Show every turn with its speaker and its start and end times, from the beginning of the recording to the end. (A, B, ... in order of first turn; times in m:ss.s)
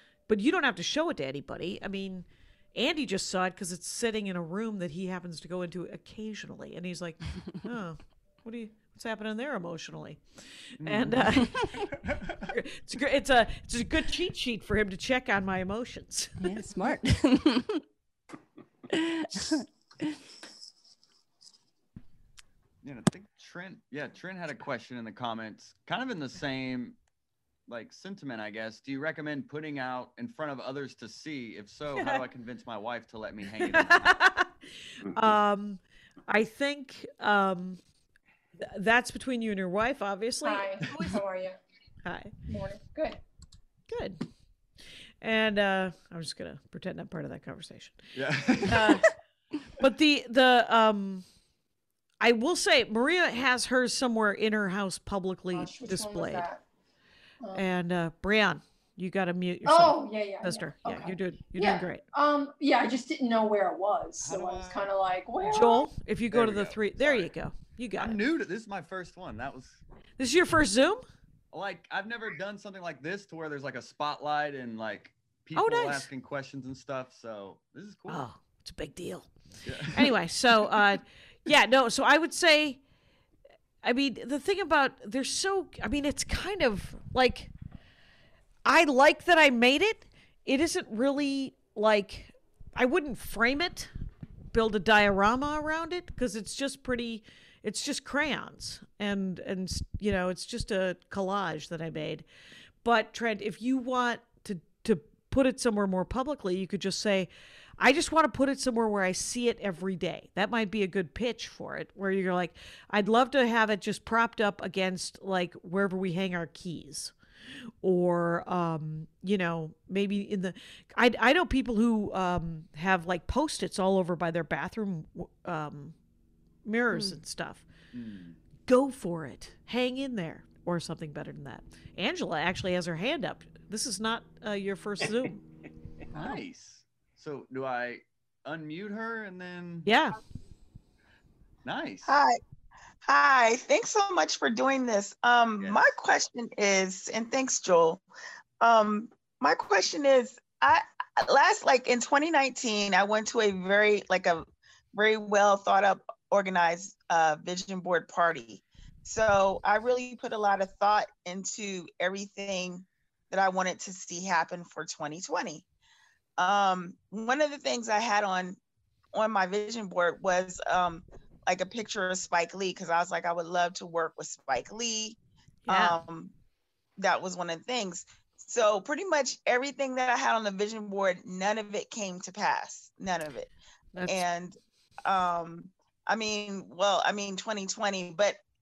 0:00.3-0:11.8 A
0:10.8-0:12.5 B
0:12.5-0:16.6 A
0:16.4-0:17.8 C
0:18.9-0:20.2 C
0:22.8-0:27.0 B
0:27.7-0:34.2 B
0:32.0-0:32.2 A
0:33.6-0:34.5 A
0:35.0-0:37.8 A
0:38.6-0:41.2 A
0:40.4-0:41.6 D
0:42.0-0:42.3 A
0:42.5-0:43.2 D
0:43.9-0:44.2 A
0:45.2-0:48.0 A
0:48.2-0:49.0 B
0:48.6-0:49.1 A
0:49.8-0:51.2 A
0:52.2-0:56.5 A
0:55.5-0:56.6 D
0:57.5-1:02.0 A
0:59.7-1:05.9 D
1:04.2-1:04.9 B
1:05.4-1:08.2 A
1:06.3-1:07.3 B
1:08.0-1:09.8 B
1:10.2-1:11.0 A
1:11.5-1:18.2 B
1:15.6-1:16.1 A
1:18.1-1:19.3 A
1:19.6-1:20.1 B
1:19.9-1:22.8 A
1:23.8-1:27.5 A
1:28.6-1:33.9 A
1:34.5-1:42.3 A
1:42.8-1:57.1 A
1:57.8-2:06.0 A
2:06.6-2:07.6 A
2:07.9-2:08.4 B
2:08.7-2:15.4 A
2:16.1-2:16.4 C
2:16.2-2:19.9 B
2:19.9-2:20.2 A
2:21.6-2:22.2 B
2:22.1-2:22.4 E
2:23.1-2:28.0 E
2:25.6-2:25.8 B
2:28.6-2:45.6 E
2:46.4-2:48.6 E
2:49.1-2:55.2 E
2:55.7-2:56.0 A
2:55.7-2:56.3 E
2:57.0-3:03.5 E
3:04.0-3:04.2 A
3:04.1-3:08.4 E